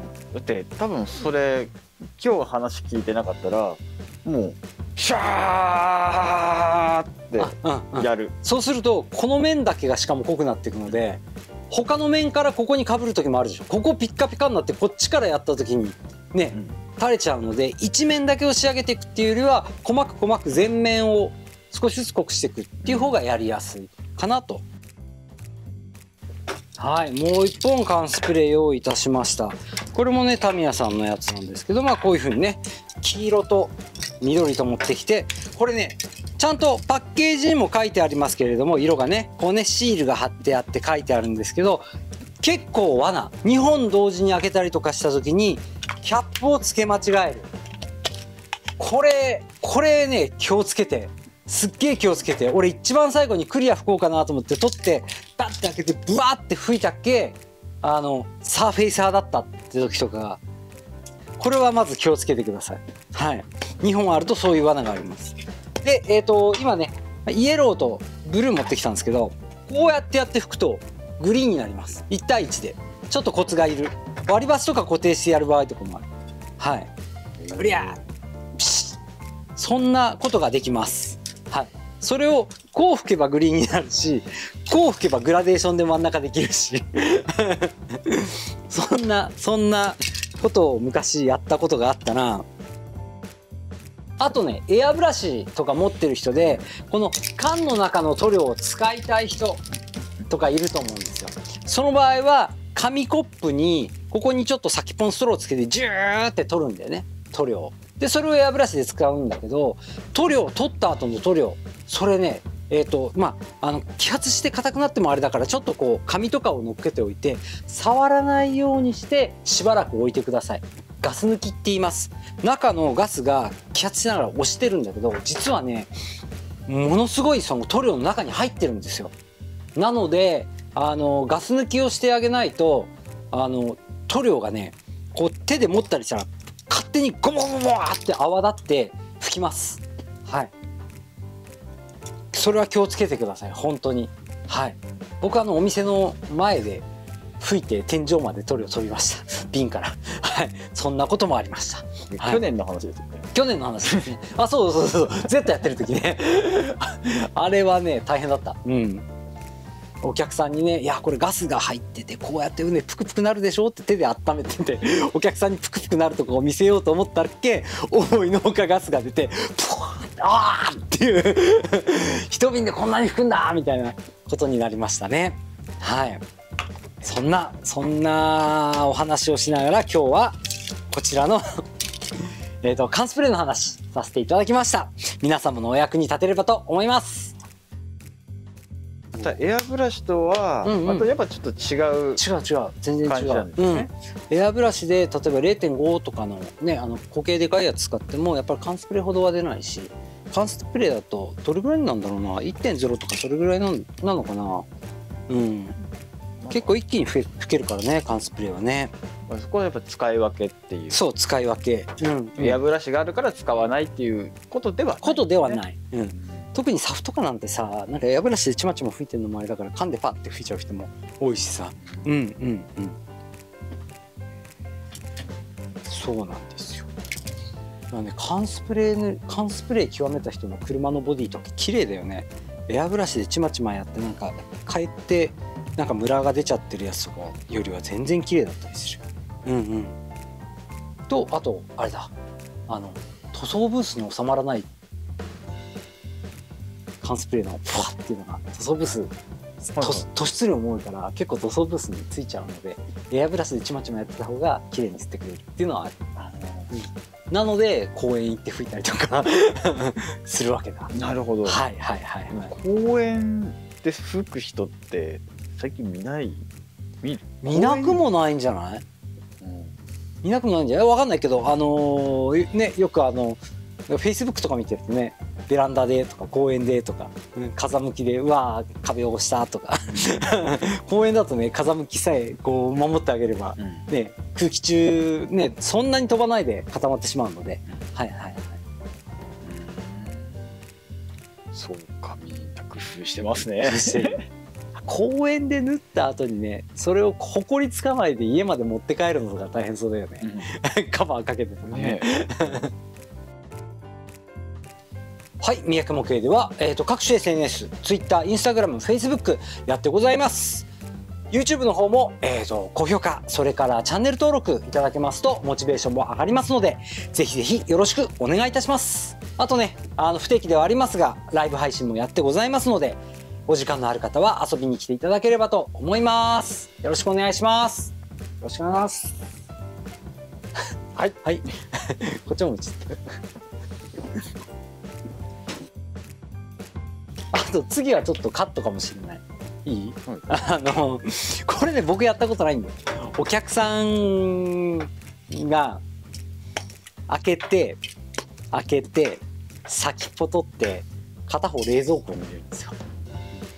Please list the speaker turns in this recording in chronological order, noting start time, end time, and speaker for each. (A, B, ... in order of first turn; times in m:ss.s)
0:00.3-0:08.3 A
0:07.4-0:24.6 B
0:26.8-0:41.8 B
0:42.4-0:47.5 B
0:48.8-1:00.4 B
1:01.4-1:16.1 B
1:16.6-1:16.9 B
1:17.5-1:18.0 B
1:18.6-1:19.0 B
1:19.6-1:32.5 B
1:34.2-1:39.6 B
1:40.3-2:05.9 B
2:06.7-2:09.1 B
2:09.8-2:20.5 B
2:22.3-2:26.9 B
2:27.4-2:32.4 B
2:32.1-2:33.3 A
2:33.3-2:39.1 B
2:40.0-2:56.2 B
2:57.0-3:00.4 B
3:00.9-3:01.6 B
3:02.6-3:07.3 B
3:09.2-3:12.2 A
3:10.6-3:11.1 B
3:12.2-3:24.7 B
3:13.0-3:13.9 A
3:25.3-3:25.8 B
3:26.4-3:26.7 A
3:26.5-3:28.9 B
3:29.3-3:31.0 A
3:30.9-3:32.6 B
3:32.4-3:35.6 A
3:35.0-3:43.0 B
3:45.9-3:46.9 B
3:47.9-4:00.0 B
4:01.1-4:02.1 B
4:02.7-4:04.7 B
4:07.0-4:09.1 B
4:09.7-4:10.1 A
4:09.8-4:16.0 B
4:16.2-4:16.7 A
4:16.7-4:20.9 B
4:20.9-4:21.6 A
4:21.4-4:22.5 B
4:22.3-4:26.4 A
4:27.0-4:28.0 A
4:27.4-4:28.8 B
4:29.4-4:29.7 A
4:30.2-4:48.6 B
4:49.4-4:50.3 A
4:51.5-4:54.2 A
4:53.6-4:54.2 B
4:54.8-5:02.7 B
5:00.2-5:00.5 A
5:01.7-5:02.2 A
5:05.4-5:10.7 B
5:11.3-5:29.2 B
5:31.0-5:33.0 B
5:37.3-5:45.8 B
5:47.1-5:47.8 B
5:48.5-5:52.8 B